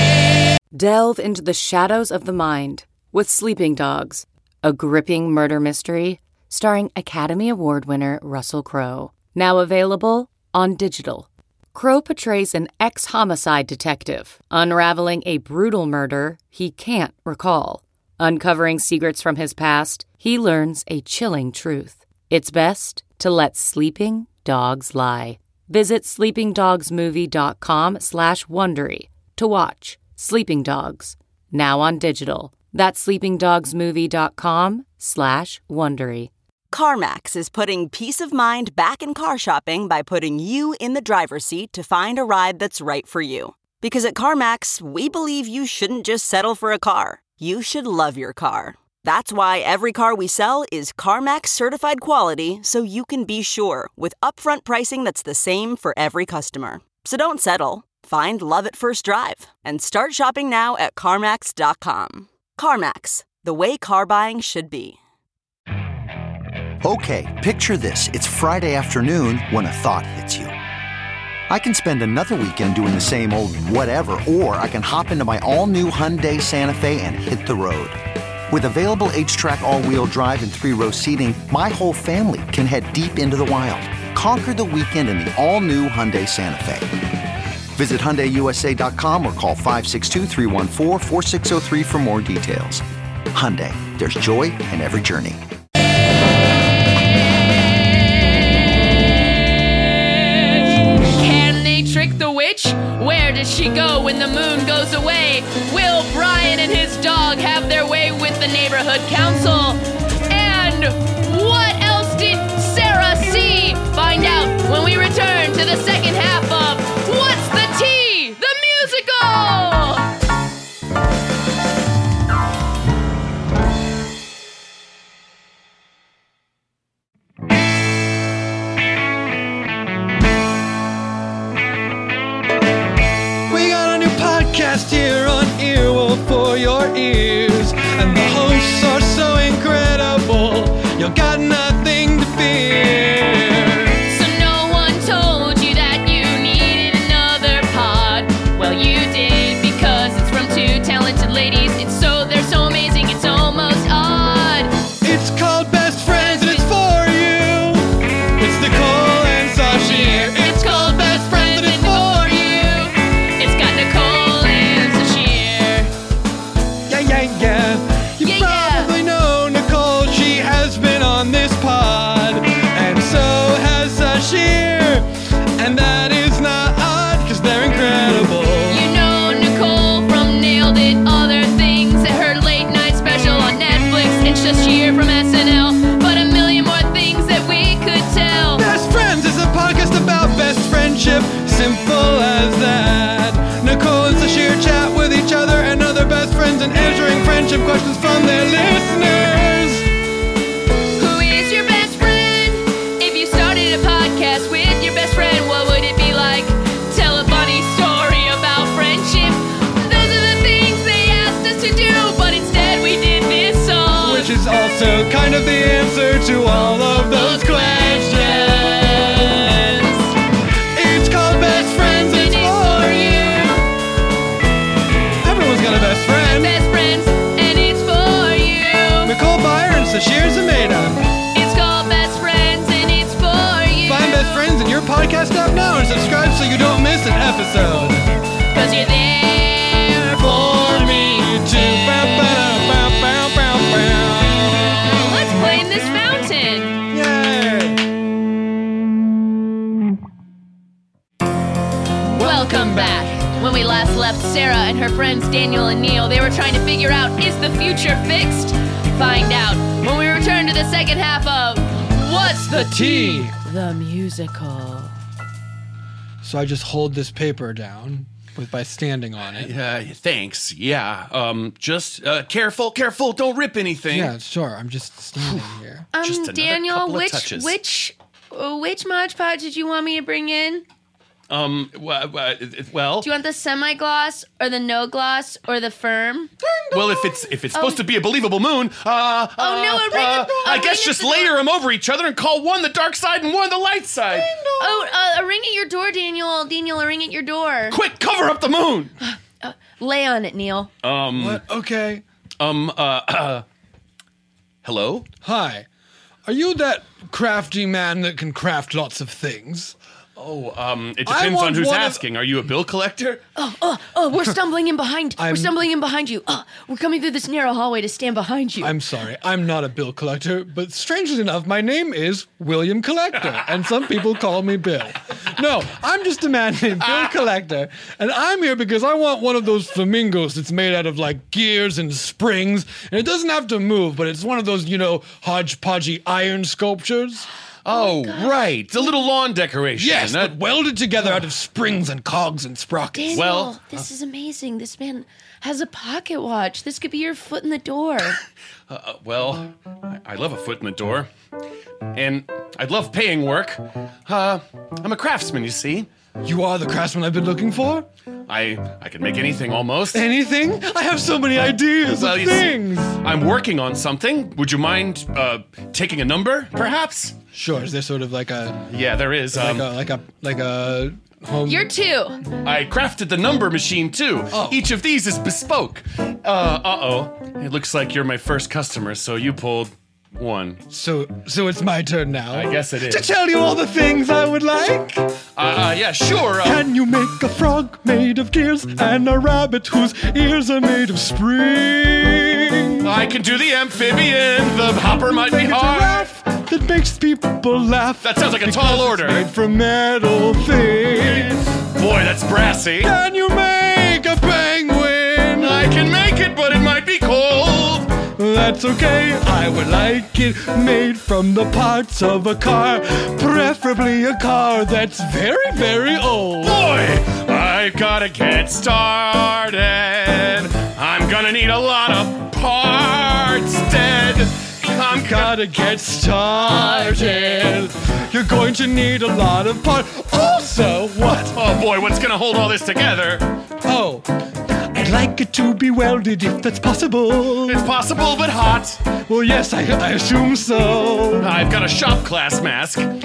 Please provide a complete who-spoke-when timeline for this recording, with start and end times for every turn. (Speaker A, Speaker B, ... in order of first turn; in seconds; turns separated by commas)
Speaker A: 0.7-36.3, Speaker B: 36.7-65.0, Speaker C: 66.8-70.5, Speaker C: 71.5-78.0, Speaker C: 78.5-86.9, Speaker C: 87.7-95.4, Speaker D: 97.0-120.1, Speaker E: 133.5-144.0, Speaker D: 144.1-154.7, Speaker E: 155.0-162.5, Speaker D: 156.2-156.7, Speaker D: 159.8-165.9, Speaker E: 166.9-178.8, Speaker D: 168.2-168.9, Speaker D: 178.7-188.6, Speaker E: 188.6-199.9, Speaker D: 201.0-214.3, Speaker E: 214.0-219.1, Speaker D: 216.8-220.1, Speaker E: 220.7-223.6, Speaker D: 221.5-223.6, Speaker E: 225.2-226.6, Speaker D: 226.2-229.1, Speaker E: 229.0-231.1, Speaker D: 231.3-234.5, Speaker E: 233.8-238.1, Speaker D: 238.5-241.2, Speaker E: 240.1-244.8, Speaker D: 244.9-246.8, Speaker E: 246.9-247.8, Speaker E: 252.1-253.2, Speaker D: 252.2-264.9, Speaker E: 262.2-263.4, Speaker E: 266.2-269.5, Speaker F: 269.4-274.1, Speaker E: 273.9-275.9, Speaker F: 275.2-275.5, Speaker D: 275.9-280.6, Speaker F: 276.0-277.6, Speaker F: 281.3-283.1, Speaker D: 283.0-286.3, Speaker E: 286.4-287.2, Speaker F: 286.7-294.3, Speaker D: 287.5-287.8, Speaker D: 289.4-291.3, Speaker E: 294.1-294.9, Speaker D: 294.6-297.8, Speaker F: 297.7-298.9, Speaker D: 299.0-300.7, Speaker F: 300.8-301.4, Speaker E: 301.1-302.0, Speaker F: 302.4-303.4, Speaker F: 304.6-305.1, Speaker E: 305.2-305.7, Speaker E: 306.2-309.8, Speaker F: 310.2-313.2, Speaker E: 311.0-312.0, Speaker D: 313.4-318.8, Speaker E: 315.2-315.6, Speaker E: 318.6-337.3, Speaker F: 337.6-340.4, Speaker D: 337.7-338.9, Speaker E: 339.8-343.2, Speaker D: 342.9-348.2, Speaker F: 343.1-343.6, Speaker F: 348.7-351.1, Speaker F: 351.9-355.9, Speaker E: 356.2-357.9, Speaker F: 358.3-360.1, Speaker E: 359.9-363.0, Speaker F: 361.9-367.2, Speaker E: 367.3-368.6, Speaker F: 368.7-369.7, Speaker E: 369.3-371.7, Speaker D: 371.4-372.2, Speaker F: 372.4-380.6, Speaker E: 374.3-374.6, Speaker E: 380.7-385.1, Speaker F: 382.3-383.1, Speaker F: 385.4-386.6, Speaker E: 386.4-392.9, Speaker F: 392.8-396.1, Speaker E: 395.1-401.5, Speaker F: 398.0-399.2, Speaker F: 401.0-402.9, Speaker E: 402.8-405.7, Speaker F: 405.4-408.0, Speaker E: 408.1-416.6, Speaker F: 416.4-425.4, Speaker E: 424.9-431.4, Speaker D: 426.4-427.6, Speaker F: 431.3-433.3, Speaker E: 433.6-437.6, Speaker F: 437.4-438.8, Speaker E: 439.0-441.3, Speaker F: 441.2-442.9